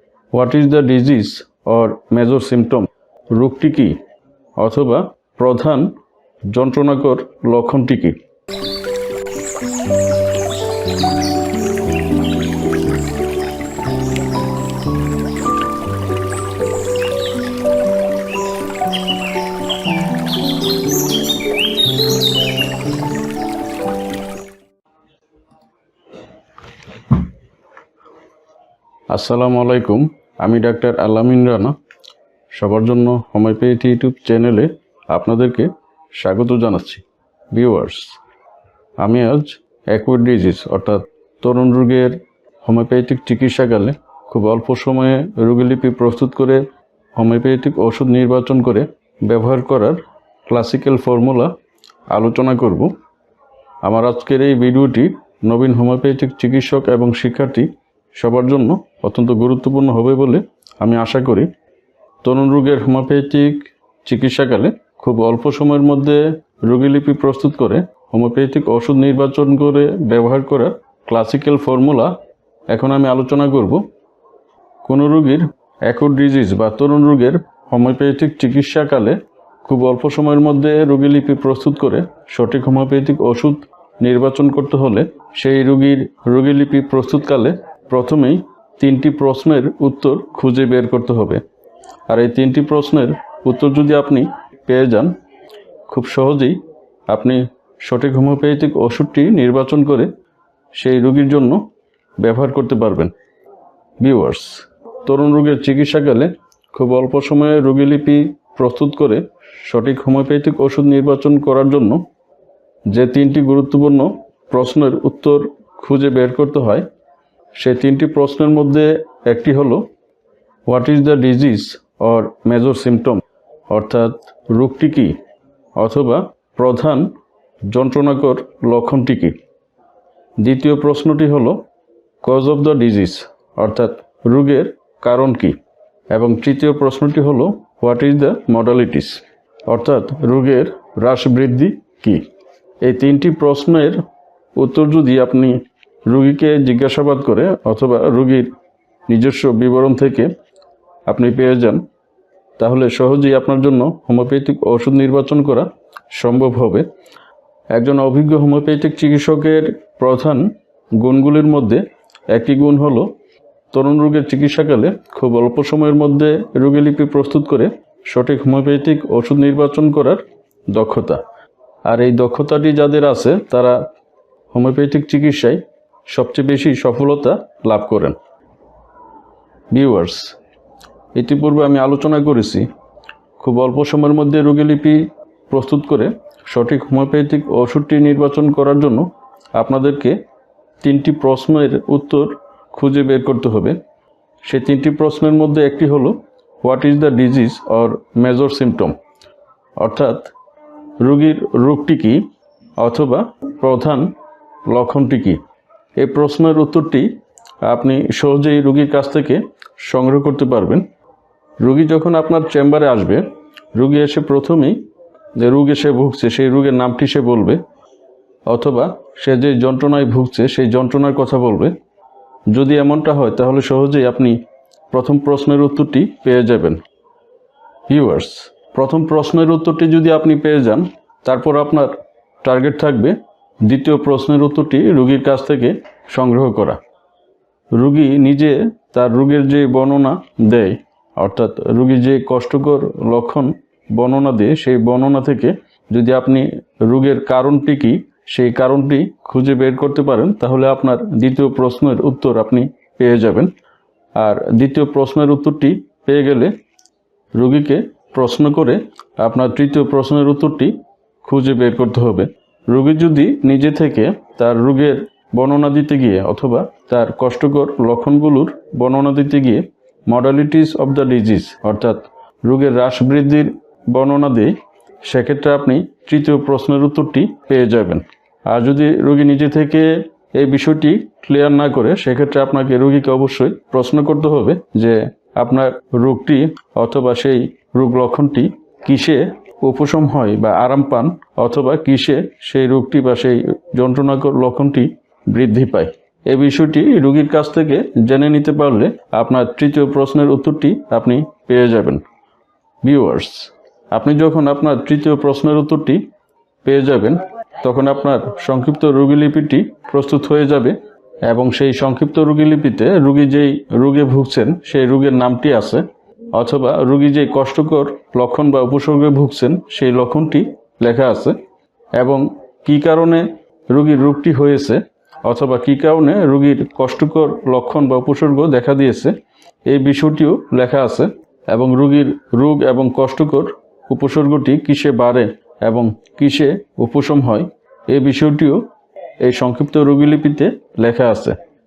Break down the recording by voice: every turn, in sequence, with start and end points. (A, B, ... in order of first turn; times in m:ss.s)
0:00.3-0:04.0 A
0:04.6-0:05.9 A
0:06.5-0:08.2 A
0:29.1-0:31.7 A
0:32.5-0:38.2 A
0:39.0-0:46.6 A
0:47.1-0:51.5 A
0:52.1-0:52.9 A
0:53.8-1:01.5 A
1:02.2-1:12.2 A
1:12.7-1:13.8 A
1:14.8-1:31.4 A
1:32.1-1:35.2 A
1:35.9-1:40.1 A
1:40.7-1:41.6 A
1:42.2-1:43.1 A
1:44.0-1:52.0 A
1:52.9-1:56.8 A
1:57.6-1:59.9 A
2:00.7-2:05.2 A
2:05.8-2:07.1 A
2:07.7-2:09.4 A
2:10.4-2:11.6 A
2:12.2-2:15.6 A
2:16.1-2:22.3 A
2:22.8-2:24.0 A
2:24.6-2:28.5 A
2:29.1-2:30.3 A
2:31.1-2:31.8 A
2:32.6-2:36.9 A
2:37.7-2:43.1 A
2:43.7-2:51.2 A
2:51.9-2:53.8 A
2:54.5-2:58.2 A
2:59.7-3:00.4 A
3:01.1-3:02.7 A
3:03.4-3:10.2 A
3:10.8-3:13.8 A
3:14.4-3:19.0 A
3:19.8-3:20.3 A
3:21.0-3:22.2 A
3:22.8-3:24.2 A
3:24.7-3:25.4 A
3:26.0-3:27.1 A
3:27.6-3:30.8 A
3:31.6-3:34.8 A
3:35.4-3:37.6 A
3:38.5-3:41.7 A
3:42.5-3:44.4 A
3:44.9-3:46.8 A
3:47.9-3:56.8 A
3:57.7-4:13.5 A
4:14.2-4:16.5 A
4:17.3-5:02.0 A
5:02.8-5:06.0 A
5:06.6-5:21.4 A
5:22.0-5:29.1 A
5:29.7-5:38.7 A
5:39.2-5:41.4 A